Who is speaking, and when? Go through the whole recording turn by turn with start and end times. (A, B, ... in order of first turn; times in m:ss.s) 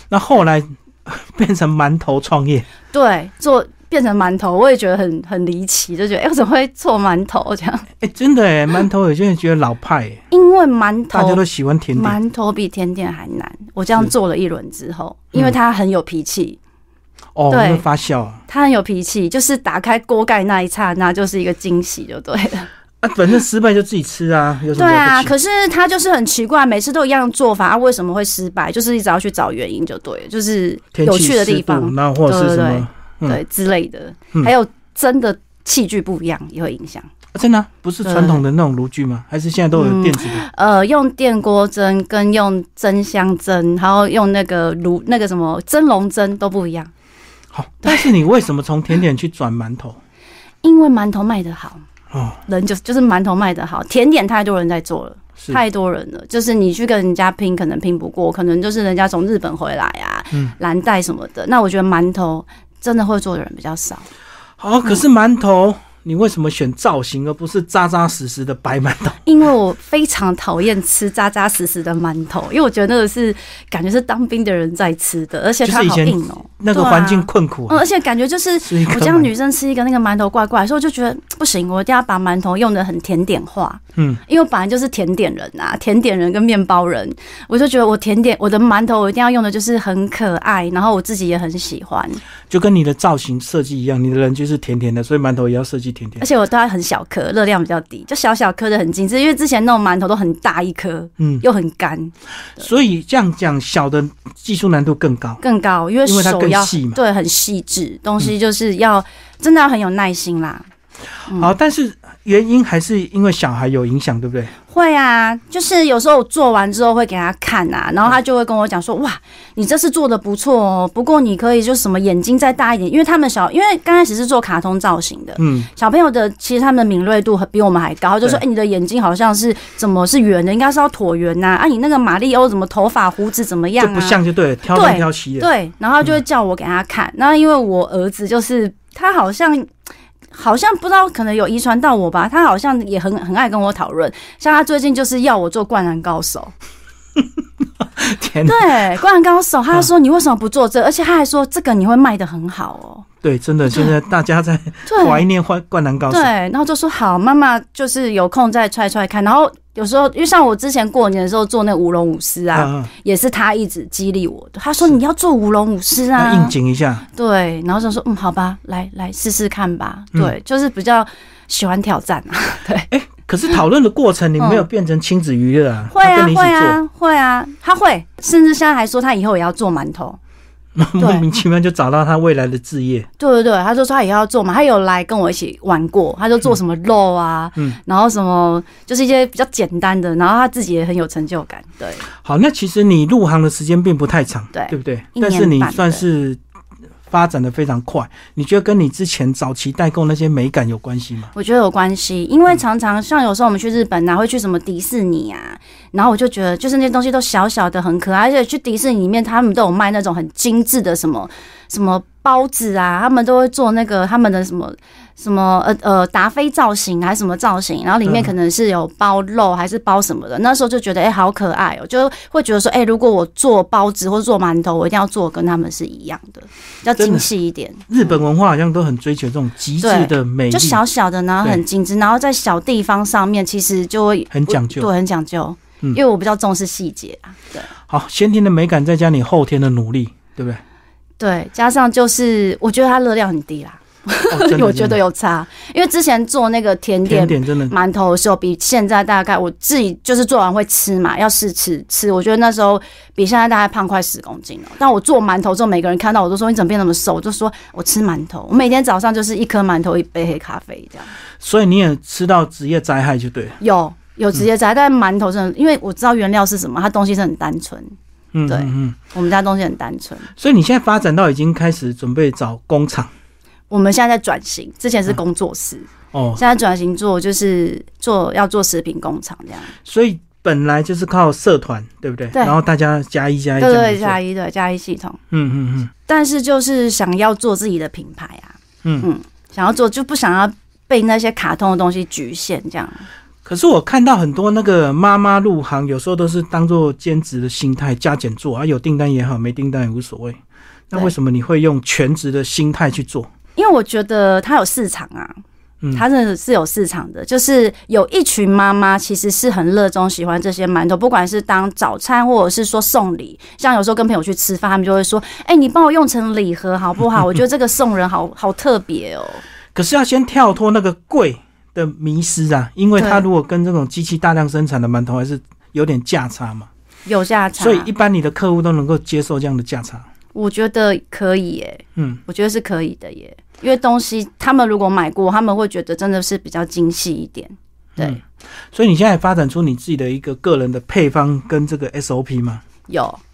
0:00.1-0:02.7 A
0:02.9-0:07.9 B
0:08.0-0:10.2 A
0:10.3-0:11.4 B
0:11.1-0:12.2 A
0:12.0-0:16.6 B
0:17.4-0:18.4 A
0:17.5-0:17.8 B
0:18.5-0:22.7 B
0:23.0-0:25.3 A
0:24.8-0:37.1 B
0:30.9-0:33.4 A
0:37.3-0:40.4 A
0:38.0-0:38.4 B
0:39.7-0:46.9 B
0:47.5-0:50.0 A
0:50.6-0:51.8 B
0:52.1-0:52.4 A
0:52.5-1:04.1 B
1:04.6-1:09.2 A
1:09.2-1:32.2 B
1:15.6-1:17.8 A
1:18.6-1:19.3 A
1:32.5-1:36.2 A
1:36.2-1:42.7 B
1:41.2-1:41.4 A
1:42.6-1:45.4 A
1:45.4-1:50.7 B
1:46.0-1:47.0 A
1:51.3-1:54.5 A
1:54.7-2:14.2 B
2:05.4-2:05.7 A
2:13.8-2:15.5 A
2:14.7-2:19.7 B
2:20.3-2:26.5 B
2:27.8-2:28.7 A
2:28.4-2:33.1 B
2:33.2-2:36.3 A
2:34.9-2:35.2 B
2:36.1-2:46.5 B
2:42.5-2:42.9 A
2:46.2-2:47.1 A
2:47.1-2:52.9 B
2:52.9-2:56.8 A
2:54.4-2:54.6 B
2:55.9-3:00.2 B
3:00.8-3:03.1 A
3:01.0-3:01.2 B
3:03.2-3:12.0 B
3:12.2-3:16.4 A
3:14.5-3:16.0 B
3:17.1-3:21.3 A
3:21.3-3:48.1 B
3:38.0-3:38.3 A
3:47.0-3:47.3 A
3:47.9-3:50.8 A
3:49.8-3:57.7 B
3:54.3-3:54.9 A
3:57.9-4:00.6 A
4:01.2-4:21.1 B
4:04.3-4:05.0 A
4:07.1-4:07.7 A
4:21.4-4:23.6 A
4:23.6-4:28.0 B
4:28.3-4:29.0 A
4:28.5-4:30.3 B
4:30.4-4:33.1 A
4:33.7-4:39.7 B
4:36.1-4:36.4 A
4:39.8-4:44.2 A
4:42.3-4:42.6 B
4:43.6-4:45.2 B
4:45.3-4:45.9 A
4:46.1-4:53.1 B
4:53.4-5:03.3 A
5:03.6-5:05.4 B
5:05.9-5:19.4 B
5:19.8-5:26.7 A
5:23.0-5:23.3 B
5:27.1-5:27.9 B
5:27.6-5:30.1 A
5:30.3-5:38.2 B
5:38.0-5:42.6 A
5:42.9-5:43.2 B